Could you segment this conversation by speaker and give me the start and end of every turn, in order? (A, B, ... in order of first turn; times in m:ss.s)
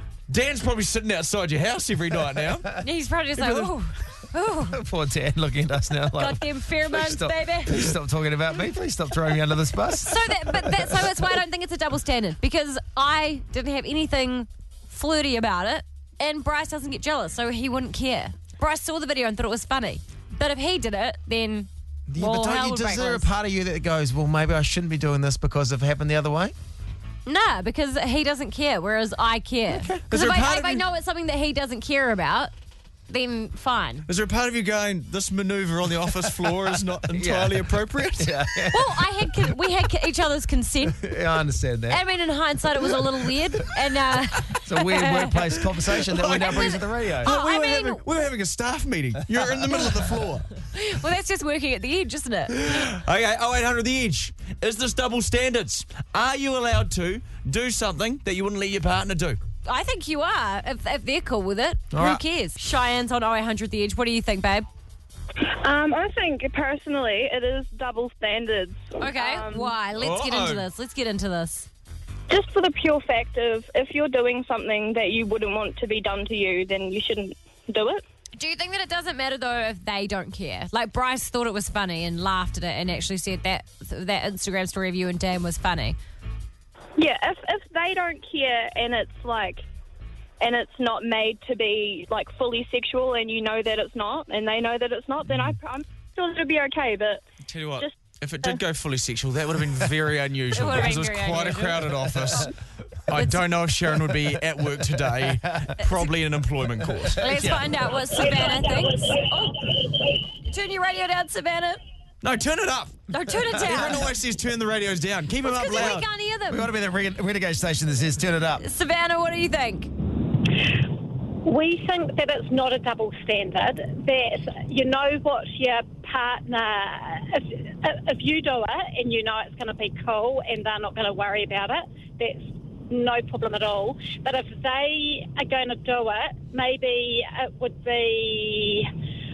0:00.3-0:02.7 A
0:02.8-0:04.8 B
0:03.4-0:03.7 A
0:04.6-0:11.2 C
0:06.1-0:07.9 B
0:10.0-0:23.3 B
0:22.1-0:26.5 C
0:27.2-0:32.5 B
0:29.7-0:30.0 C
0:30.1-0:30.8 A
0:33.1-0:34.1 B
0:34.1-0:38.4 A
0:37.1-0:39.4 C
0:38.7-0:41.0 B
0:40.9-0:42.0 C
0:41.9-0:45.4 B
0:44.5-0:47.3 C
0:46.0-0:50.5 A
0:46.3-0:48.0 B
0:50.7-0:52.8 B
0:52.5-0:59.4 A
0:59.6-1:04.6 B
1:01.9-1:02.2 C
1:05.4-1:09.7 D
1:09.0-1:11.7 B
1:10.0-1:10.6 A
1:12.3-1:18.0 D
1:18.4-1:26.0 B
1:27.0-1:29.6 D
1:30.4-1:37.2 D
1:37.5-1:42.5 A
1:40.5-1:41.8 B
1:43.1-1:47.5 A
1:43.1-1:43.4 B
1:45.4-1:45.7 C
1:47.0-1:47.6 C
1:47.2-1:49.7 B
1:50.4-1:51.8 B
1:52.2-1:56.1 A
1:53.1-1:54.1 B
1:55.4-1:56.7 B
1:55.8-1:58.6 C
1:58.6-1:59.9 B
2:01.4-2:18.9 E